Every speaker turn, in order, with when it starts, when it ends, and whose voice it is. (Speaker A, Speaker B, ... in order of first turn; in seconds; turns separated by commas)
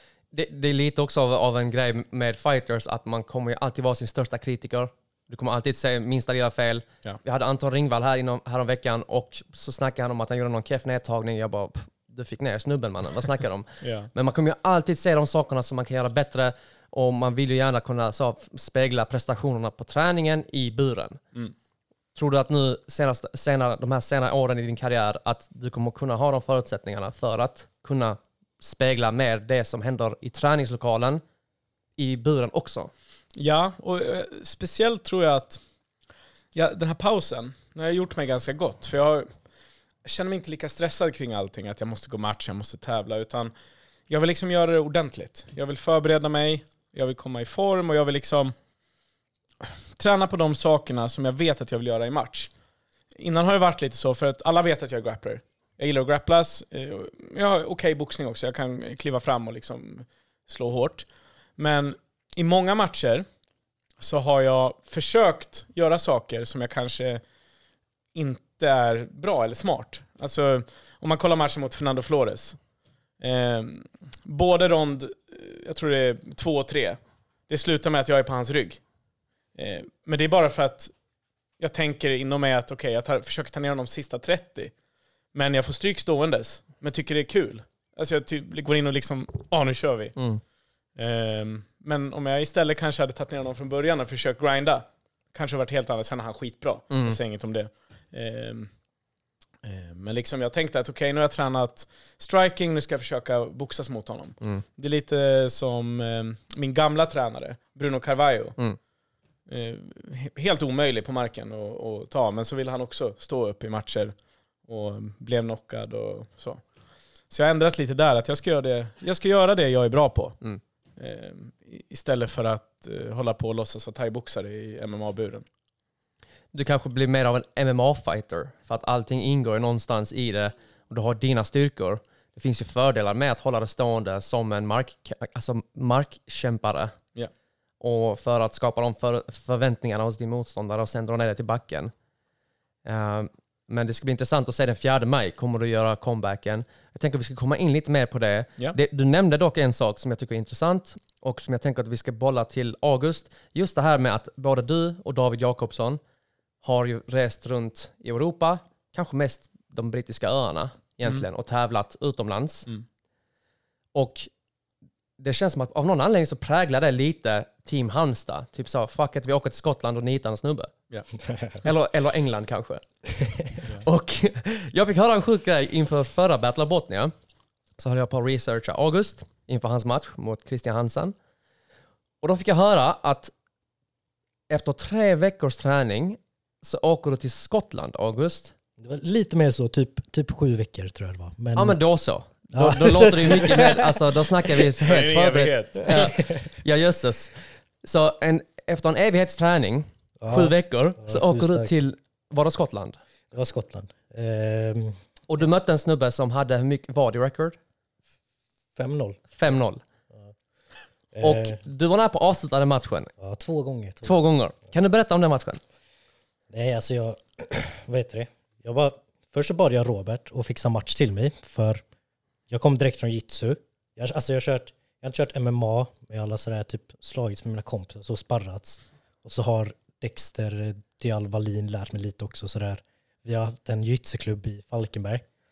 Speaker A: 0.3-21.2, Speaker B: 13.8-14.1, Speaker A: 22.1-31.2, Speaker A: 32.0-32.9, Speaker B: 33.4-35.6, Speaker B: 36.5-39.3, Speaker B: 40.0-43.5, Speaker B: 44.1-48.5, Speaker B: 49.6-52.5, Speaker B: 53.2-61.1, Speaker B: 61.6-63.3, Speaker B: 64.0-67.2, Speaker B: 68.1-72.6, Speaker B: 73.2-78.8, Speaker B: 79.6-80.9, Speaker B: 81.6-84.7, Speaker B: 85.3-90.2, Speaker A: 90.2-90.4, Speaker B: 91.0-98.7, Speaker A: 96.9-97.2, Speaker B: 99.6-108.6, Speaker B: 109.5-114.1, Speaker B: 114.7-116.6, Speaker B: 117.3-120.4, Speaker B: 121.0-125.5, Speaker A: 126.5-136.9, Speaker A: 137.8-141.9, Speaker A: 142.8-156.0, Speaker A: 156.6-162.7, Speaker A: 163.9-164.3, Speaker A: 165.2-170.7, Speaker A: 171.6-172.8, Speaker A: 173.8-177.1, Speaker A: 177.8-181.2, Speaker A: 182.2-183.3, Speaker A: 184.5-188.5, Speaker C: 188.8-191.8, Speaker A: 191.6-203.0, Speaker C: 192.5-194.0, Speaker B: 194.8-196.1, Speaker C: 195.9-196.4, Speaker C: 200.2-201.7, Speaker C: 203.3-205.0, Speaker A: 205.3-207.6, Speaker C: 208.8-209.3, Speaker A: 209.4-209.8, Speaker C: 211.1-211.6, Speaker A: 211.2-213.1, Speaker C: 213.2-214.2, Speaker A: 214.0-215.6, Speaker C: 216.5-221.8, Speaker C: 222.5-235.2